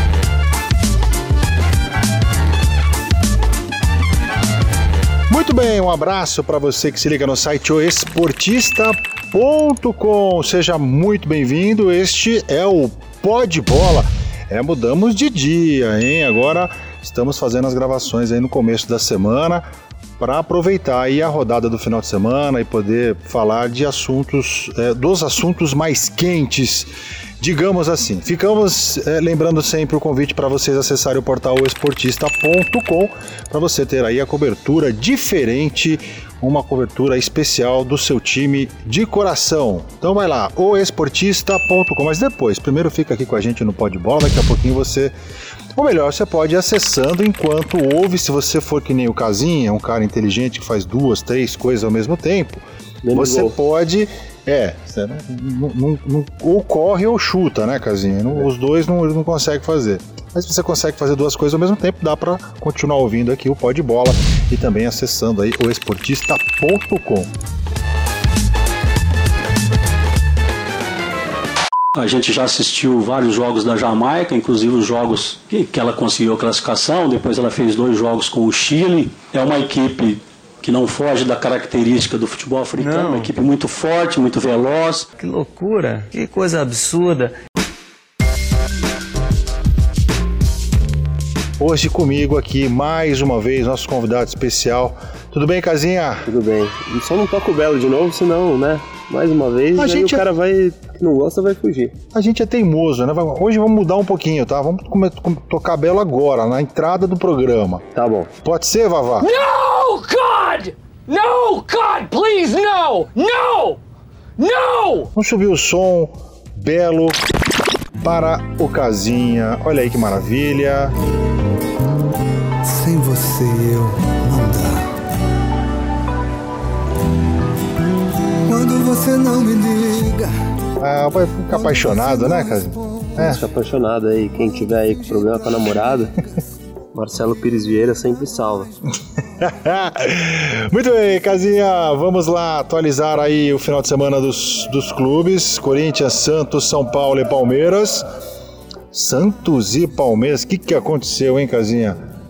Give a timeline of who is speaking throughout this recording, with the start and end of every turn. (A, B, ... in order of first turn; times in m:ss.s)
0:05.3-0:19.7 A
0:20.2-0:45.1 A
0:45.7-1:07.3 A
0:53.0-0:53.6 B
1:11.9-1:25.0 C
1:22.8-1:23.3 D
1:25.2-1:27.3 D
1:31.6-1:36.3 A
1:36.3-1:42.0 B
1:39.8-1:40.2 A
1:42.1-1:47.8 A
1:47.9-1:48.3 B
1:48.4-1:49.3 A
1:49.2-1:53.8 E
1:54.4-1:55.1 E
1:55.1-1:57.2 A
1:58.0-2:00.9 A
2:02.6-2:04.9 F
2:08.4-2:10.3 F
2:10.8-2:13.4 A
2:11.5-2:13.1 F
2:13.2-2:16.1 B
2:16.9-2:18.7 B
2:19.4-2:28.0 A
2:28.9-2:32.0 A